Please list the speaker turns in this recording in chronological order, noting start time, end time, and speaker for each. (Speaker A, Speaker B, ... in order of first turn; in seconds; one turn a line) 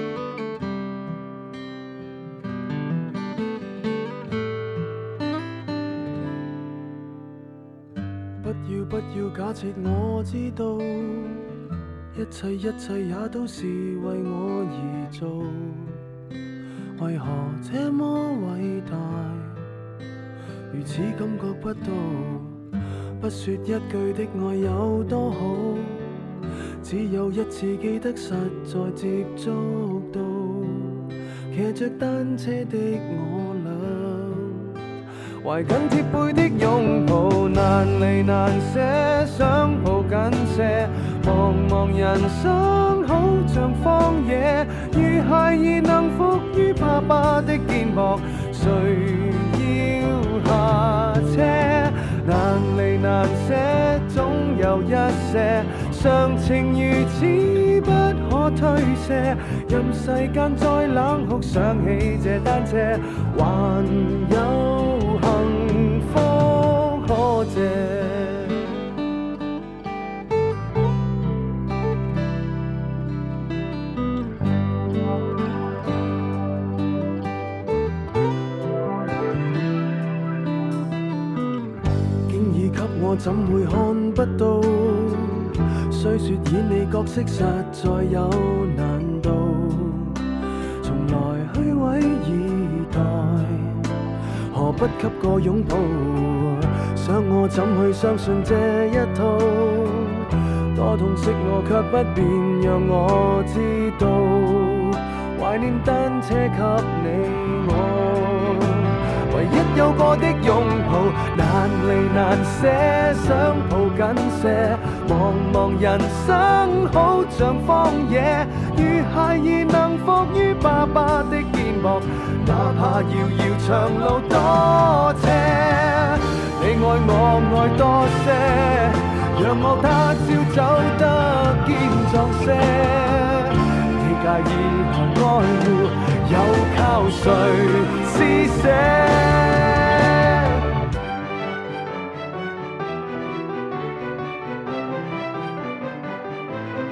Speaker A: 8.4-11.5
Speaker A: 12.1-16.0
Speaker A: 17.0-19.6
Speaker A: 20.7-22.6
Speaker A: 23.2-34.7
Speaker A: 35.4-68.7
Speaker A: 82.3-90.2
Speaker A: 90.8-93.9
Speaker A: 94.5-140.3